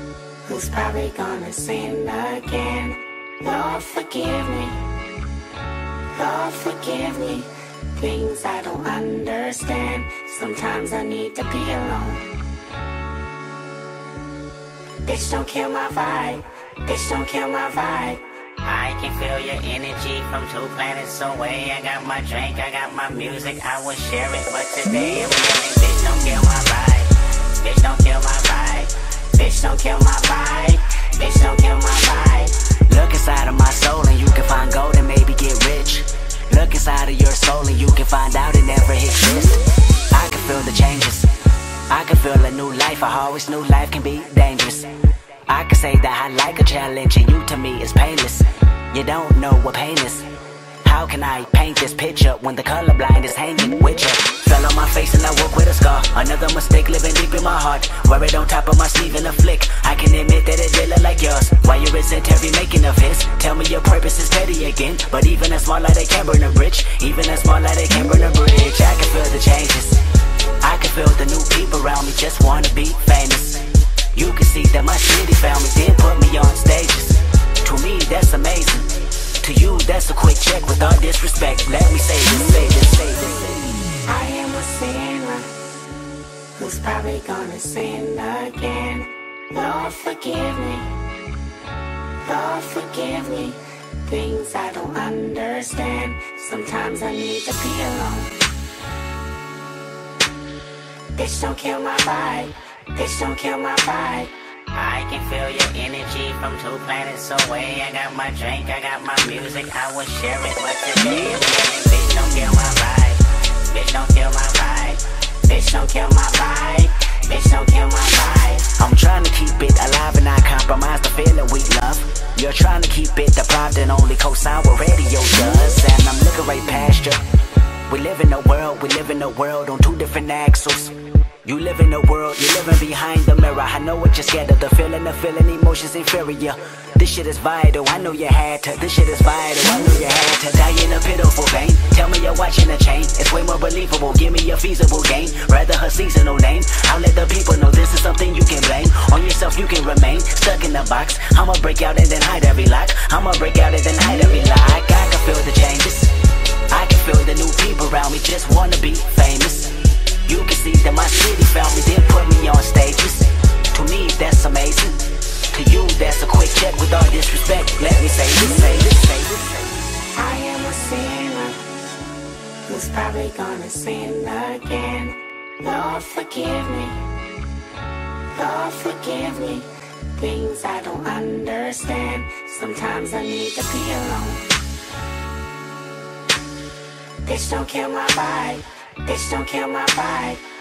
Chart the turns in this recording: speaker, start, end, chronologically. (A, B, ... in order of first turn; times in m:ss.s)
0:00.4-0:04.8 A
0:06.1-0:12.3 A
0:15.0-0:18.2 A
0:18.6-0:29.1 B
0:29.3-0:32.6 A
0:32.9-0:41.3 C
0:41.9-0:44.9 C
0:45.5-0:50.3 C
0:50.8-1:10.0 C
1:10.6-1:18.9 C
1:19.4-1:23.6 C
1:24.1-1:25.5 A
1:26.6-1:31.0 A
1:32.2-1:38.4 A
1:41.2-1:44.3 A
1:44.7-1:55.2 B
1:55.4-1:58.7 A
1:58.7-2:07.2 C
2:07.9-2:36.1 C
2:36.7-2:45.0 C
2:45.5-2:49.5 C
2:50.1-2:51.6 A
2:52.7-2:57.0 A
2:58.3-3:04.5 A
3:07.2-3:10.4 A